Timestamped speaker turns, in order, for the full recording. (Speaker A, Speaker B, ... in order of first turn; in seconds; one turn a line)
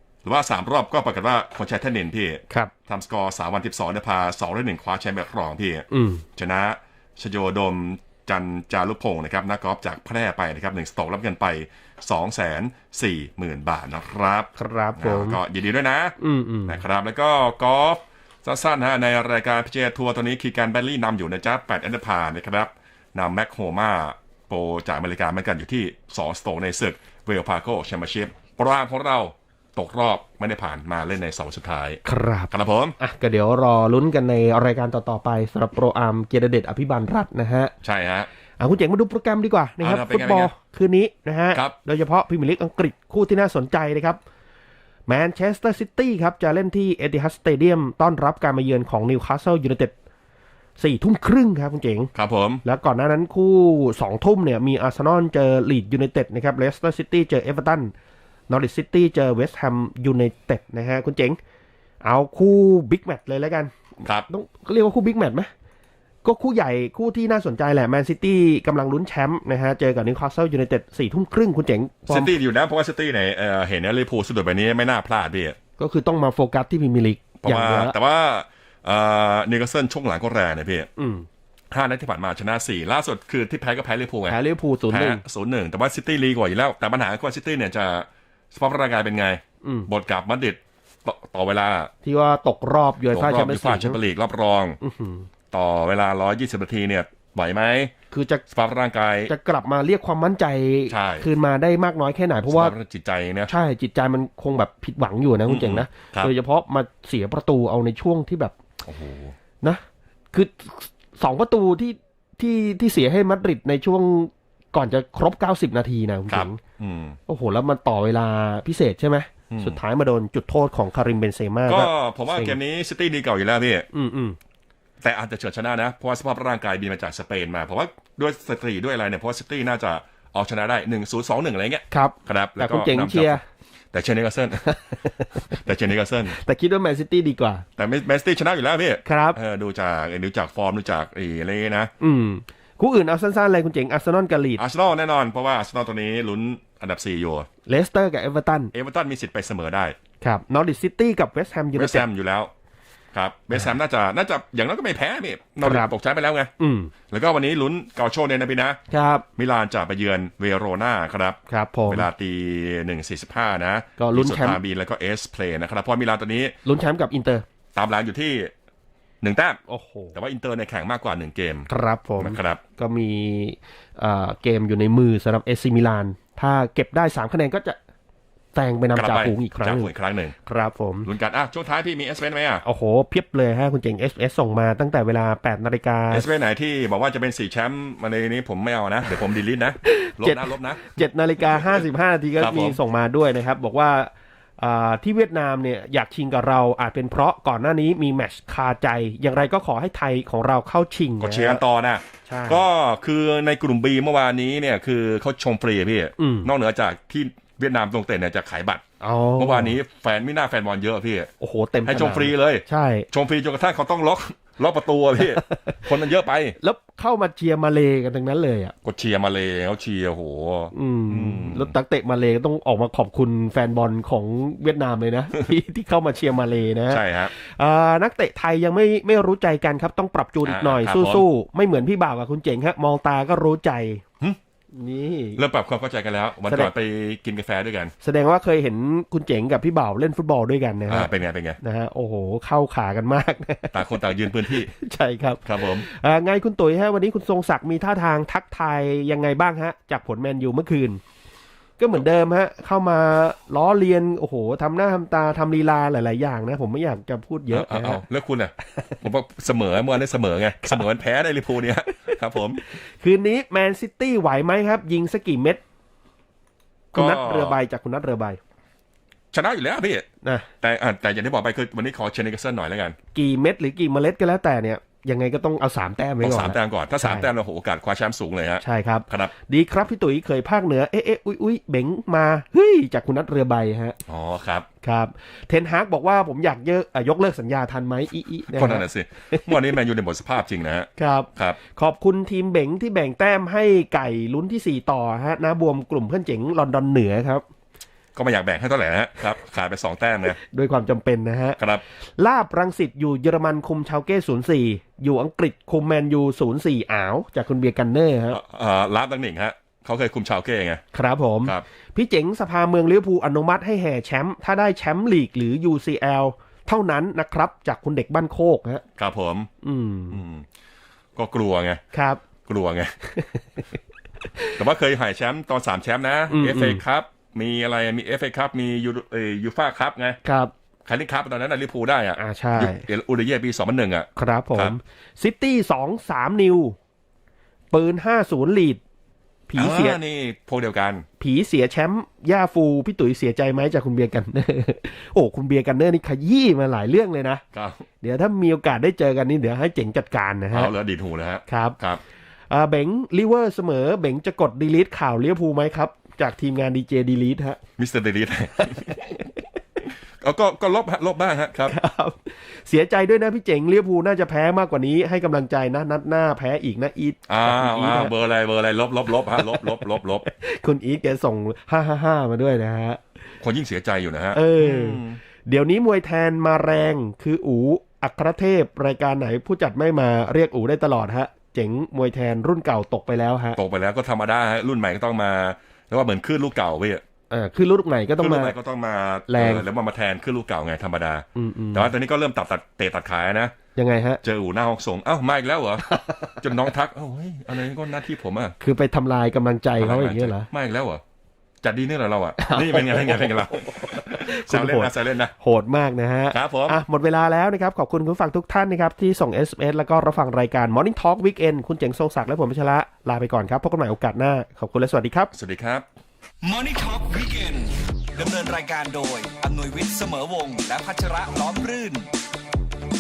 Speaker A: 0.2-33.0
Speaker B: 5.9-6.2
Speaker B: 14.6-15.4
Speaker B: 16.2-16.8
Speaker B: 32.0-37.7
Speaker A: 37.8-38.3
Speaker B: 38.6-44.2
Speaker A: 39.8-40.5
Speaker B: 45.1-49.9
Speaker B: 50.8-52.1
Speaker A: 52.1-52.6
Speaker B: 52.6-57.9
Speaker B: 58.5-61.4
Speaker B: 62.0-63.7
Speaker A: 64.0-64.3
Speaker B: 64.3-65.5
Speaker B: 66.2-72.3
Speaker A: 72.1-75.6
Speaker B: 75.8-78.0
Speaker A: 77.4-80.9
Speaker B: 81.0-81.3
Speaker A: 81.7-91.9
Speaker B: 84.3-85.2
Speaker B: 89.6-89.9
Speaker B: 92.0-94.0
Speaker A: 93.1-94.8
Speaker B: 94.8-95.3
Speaker A: 95.5-97.9
Speaker B: 98.1-98.4
Speaker A: 98.5-99.3
Speaker B: 99.3-102.7
Speaker A: 100.9-101.3
Speaker A: 102.5-103.5
Speaker B: 103.5-108.5
Speaker A: 105.5-106.3
Speaker A: 108.8-109.3
Speaker B: 110.3-116.6
Speaker A: 116.3-117.2
Speaker B: 117.3-122.6
Speaker A: 119.5-119.8
Speaker A: 121.7-123.9
Speaker B: 123.9-124.4
Speaker A: 125.0-133.4
Speaker B: 131.9-133.4
Speaker A: 133.9-134.8
Speaker B: 134.7-135.6
Speaker A: 135.5-136.4
Speaker B: 136.3-137.7
Speaker A: 137.8-141.9
Speaker B: 139.1-139.4
Speaker B: 142.0-144.6
Speaker A: 144.6-147.5
Speaker B: 147.7-148.7
Speaker A: 148.7-150.0
Speaker B: 150.2-152.0
Speaker A: 151.8-152.5
Speaker A: 153.1-156.5
Speaker B: 155.6-155.9
Speaker B: 156.6-156.9
Speaker A: 157.1-158.8
Speaker B: 158.9-159.2
Speaker A: 159.4-166.6
Speaker B: 161.5-162.1
Speaker B: 164.0-164.6
Speaker B: 166.7-167.4
Speaker A: 167.8-168.5
Speaker A: 169.2-169.6
Speaker B: 169.7-170.1
Speaker A: 170.1-171.7
Speaker B: 171.7-177.8
Speaker A: 172.2-172.6
Speaker B: 178.6-179.9
Speaker A: 178.9-180.3
Speaker B: 180.4-181.1
Speaker A: 181.0-182.6
Speaker B: 182.6-186.3
Speaker A: 186.1-191.8
Speaker B: 189.8-201.6
Speaker A: 192.4-192.8
Speaker A: 201.2-208.8
Speaker B: 202.3-202.7
Speaker B: 206.2-206.5
Speaker B: 209.0-209.8
Speaker A: 209.4-211.3
Speaker B: 211.4-213.1
Speaker A: 211.9-216.6
Speaker B: 215.2-215.9
Speaker B: 216.6-218.7
Speaker A: 218.8-221.7
Speaker B: 220.7-234.0
Speaker A: 226.9-227.3
Speaker A: 230.4-231.2
Speaker B: 234.7-235.4
Speaker A: 235.4-237.9
Speaker B: 238.0-251.0
Speaker A: 240.9-241.6
Speaker A: 243.7-244.7
Speaker A: 245.4-245.9
Speaker B: 251.8-258.0
Speaker A: 257.5-262.6
Speaker B: 262.1-265.6
Speaker B: 266.9-268.4
Speaker A: 266.9-267.6
Speaker A: 269.3-270.1
Speaker A: 270.6-273.0
Speaker B: 273.1-277.3
Speaker A: 276.2-279.3
Speaker B: 278.6-284.0
Speaker A: 284.1-284.7
Speaker B: 284.8-289.6
Speaker A: 288.5-291.6
Speaker B: 291.0-297.4
Speaker A: 298.1-300.4
Speaker B: 300.5-308.4
Speaker A: 301.6-301.8
Speaker A: 308.3-310.8
Speaker B: 310.9-318.8
Speaker A: 319.0-319.5
Speaker B: 319.6-320.2
Speaker A: 320.1-320.5
Speaker A: 321.2-321.8
Speaker B: 321.9-322.2
Speaker A: 322.5-322.9
Speaker A: 324.6-330.2
Speaker B: 326.3-326.8
Speaker B: 330.2-330.5
Speaker A: 330.9-334.7
Speaker B: 332.2-332.9
Speaker B: 334.2-336.8
Speaker B: 337.7-338.8
Speaker B: 339.5-340.0
Speaker A: 339.6-341.1
Speaker B: 341.2-347.4
Speaker A: 347.5-347.8
Speaker B: 348.0-350.7
Speaker A: 350.5-352.0
Speaker B: 351.5-351.8
Speaker B: 352.5-357.6
Speaker A: 357.8-359.2
Speaker A: 360.2-361.8
Speaker B: 361.7-368.1
Speaker A: 367.3-370.3
Speaker B: 369.4-369.7
Speaker B: 370.3-373.0
Speaker A: 373.4-375.2
Speaker B: 374.3-383.6
Speaker A: 383.6-387.0
Speaker B: 387.3-388.6
Speaker A: 388.2-393.6
Speaker B: 389.3-389.7
Speaker B: 391.4-391.9
Speaker B: 393.8-394.2
Speaker A: 394.2-395.9
Speaker B: 395.8-396.4
Speaker A: 396.4-398.6
Speaker B: 398.6-400.5
Speaker A: 399.8-401.0
Speaker A: 401.6-405.3
Speaker B: 402.4-415.3
Speaker A: 406.3-406.8
Speaker A: 415.3-415.9
Speaker C: 416.4-422.1